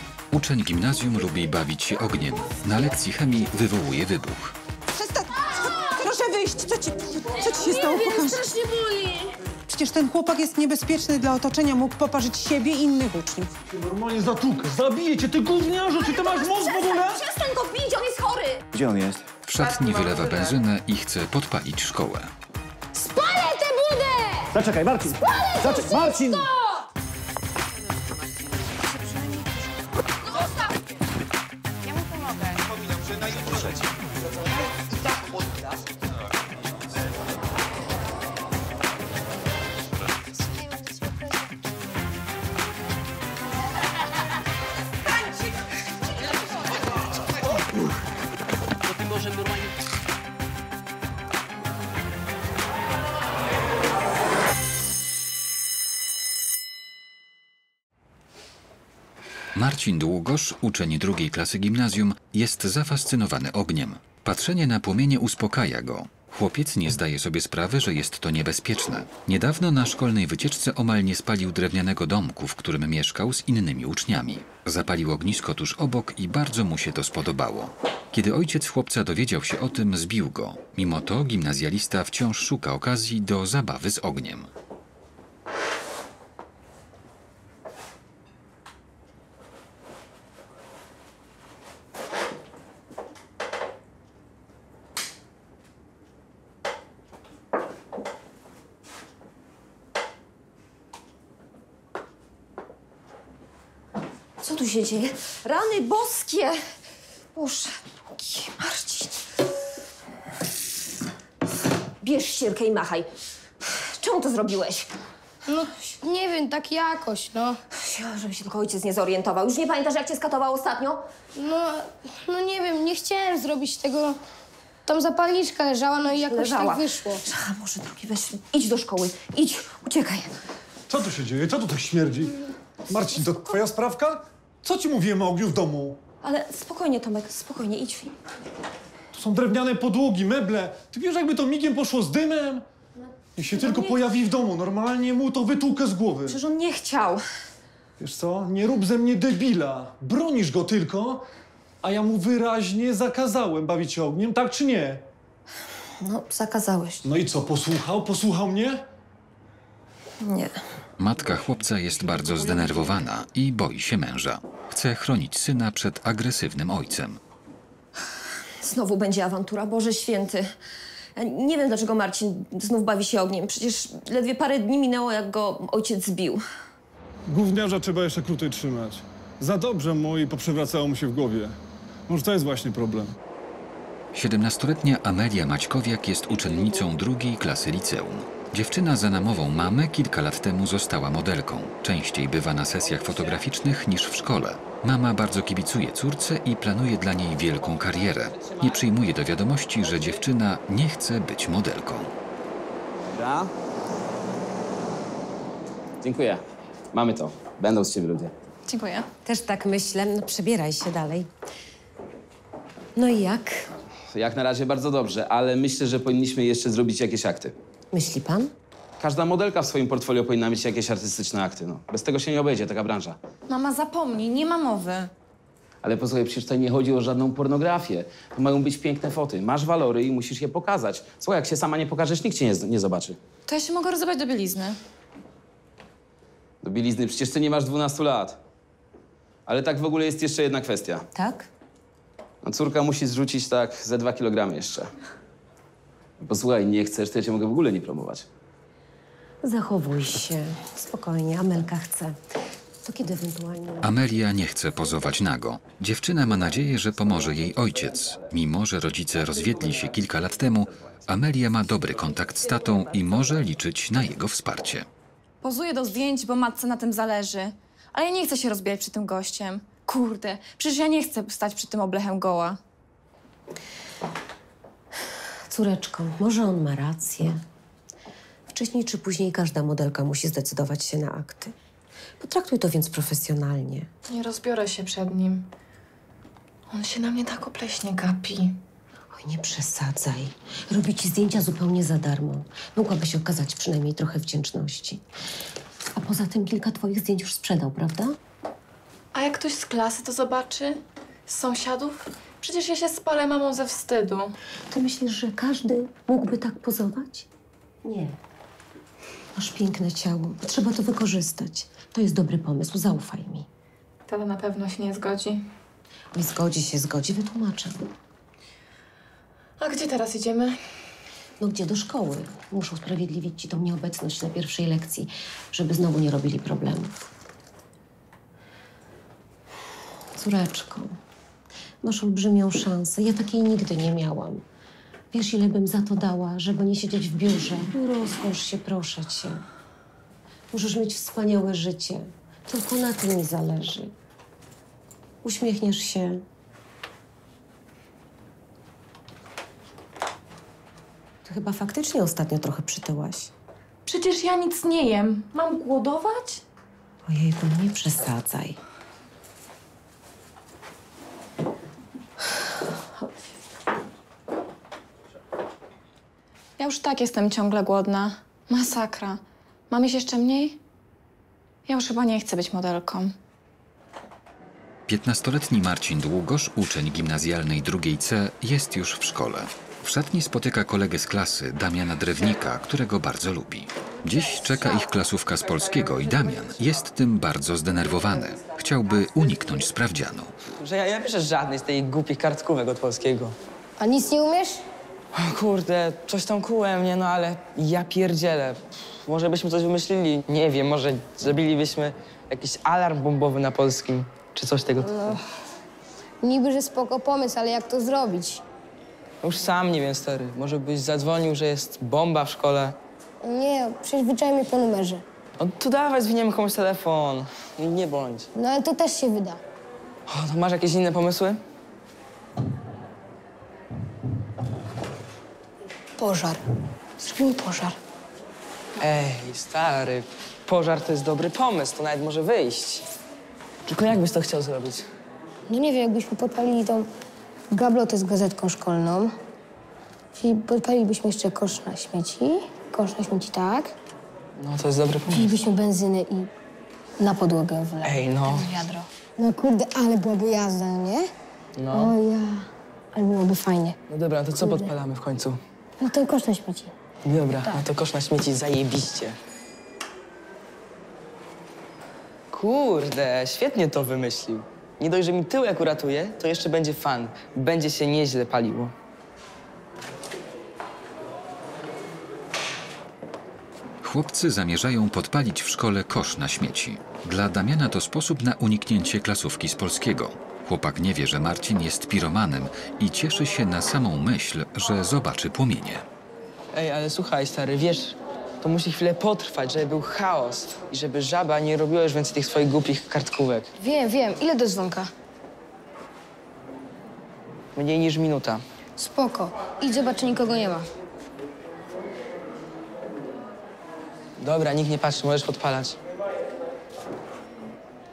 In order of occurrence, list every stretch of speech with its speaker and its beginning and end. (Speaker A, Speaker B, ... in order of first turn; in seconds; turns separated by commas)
Speaker A: 0.3-4.5, Speaker B: 4.9-8.5, Speaker B: 9.7-13.5, Speaker C: 13.7-17.2, Speaker D: 15.9-18.6, Speaker E: 18.8-19.2, Speaker A: 19.4-22.3, Speaker D: 22.9-24.4, Speaker E: 24.6-26.2, Speaker D: 25.2-26.4, Speaker A: 59.5-84.5, Speaker D: 104.4-106.6, Speaker D: 107.3-109.2, Speaker D: 112.0-113.1, Speaker D: 113.6-114.9, Speaker F: 115.5-117.6, Speaker D: 117.7-121.0, Speaker F: 121.4-124.2, Speaker F: 124.8-127.2, Speaker D: 126.0-130.3, Speaker C: 130.9-132.3, Speaker C: 132.9-136.0, Speaker D: 133.2-133.6, Speaker D: 136.2-138.1, Speaker C: 139.1-142.6, Speaker D: 143.4-144.0, Speaker C: 143.4-146.4, Speaker D: 146.2-147.2, Speaker C: 148.0-151.2, Speaker C: 151.8-155.0, Speaker D: 156.0-157.0, Speaker C: 157.0-158.8, Speaker D: 160.2-160.5, Speaker A: 161.0-167.2, Speaker C: 162.1-162.9, Speaker D: 168.6-170.5, Speaker D: 171.2-176.4, Speaker C: 177.3-181.5, Speaker C: 182.1-183.2, Speaker A: 184.1-202.1, Speaker G: 203.1-203.5, Speaker G: 206.0-206.4, Speaker G: 206.9-208.3, Speaker H: 208.7-209.1, Speaker I: 209.2-211.3, Speaker I: 212.9-213.7, Speaker G: 214.1-217.5, Speaker I: 217.9-218.5, Speaker G: 219.0-223.2, Speaker H: 223.5-225.1, Speaker G: 225.8-233.2, Speaker H: 233.5-234.8, Speaker G: 236.6-238.4, Speaker G: 239.5-241.0, Speaker I: 241.1-241.5, Speaker G: 242.4-244.9, Speaker G: 246.2-248.2, Speaker I: 249.4-252.2, Speaker I: 252.8-253.9, Speaker A: 253.8-264.9, Speaker H: 265.4-272.6, Speaker I: 275.5-277.4, Speaker I: 278.5-281.5, Speaker I: 282.2-283.9, Speaker H: 284.1-285.5, Speaker H: 286.7-288.6, Speaker I: 289.1-295.0, Speaker I: 295.9-298.1, Speaker H: 299.1-304.3, Speaker I: 304.7-307.3, Speaker I: 307.8-308.1, Speaker I: 309.4-313.4, Speaker H: 314.1-315.4, Speaker I: 316.1-317.9, Speaker H: 319.6-320.6, Speaker I: 321.4-327.0, Speaker I: 330.2-330.9, Speaker I: 331.8-334.4, Speaker I: 335.1-339.4, Speaker I: 340.5-343.9, Speaker I: 345.2-346.2, Speaker I: 351.2-353.3, Speaker H: 353.8-356.4, Speaker I: 357.1-358.6, Speaker H: 366.6-369.2, Speaker H: 369.7-370.6, Speaker H: 371.7-373.1, Speaker A: 374.9-390.3, Speaker J: 390.6-393.4, Speaker F: 393.8-394.6, Speaker J: 395.1-405.2, Speaker F: 406.2-408.4, Speaker J: 409.2-412.8, Speaker F: 413.2-415.0, Speaker J: 415.4-418.3, Speaker F: 418.4-419.4, Speaker J: 420.1-421.4, Speaker F: 426.0-426.4, Speaker F: 427.0-427.8, Speaker J: 428.8-432.9, Speaker J: 433.6-434.9, Speaker F: 435.5-436.9, Speaker F: 437.5-439.1, Speaker F: 440.1-443.7, Speaker J: 444.4-445.4, Speaker F: 445.1-446.3, Speaker F: 447.0-451.1, Speaker J: 447.8-448.6, Speaker J: 451.6-452.0, Speaker F: 451.7-453.8, Speaker J: 453.9-455.4, Speaker F: 455.8-456.7, Speaker J: 457.0-459.2, Speaker J: 462.3-468.7, Speaker A: 473.8-485.8, Speaker J: 486.5-493.6, Speaker F: 493.6-494.9, Speaker J: 497.5-498.4, Speaker F: 498.8-500.7, Speaker J: 504.2-505.8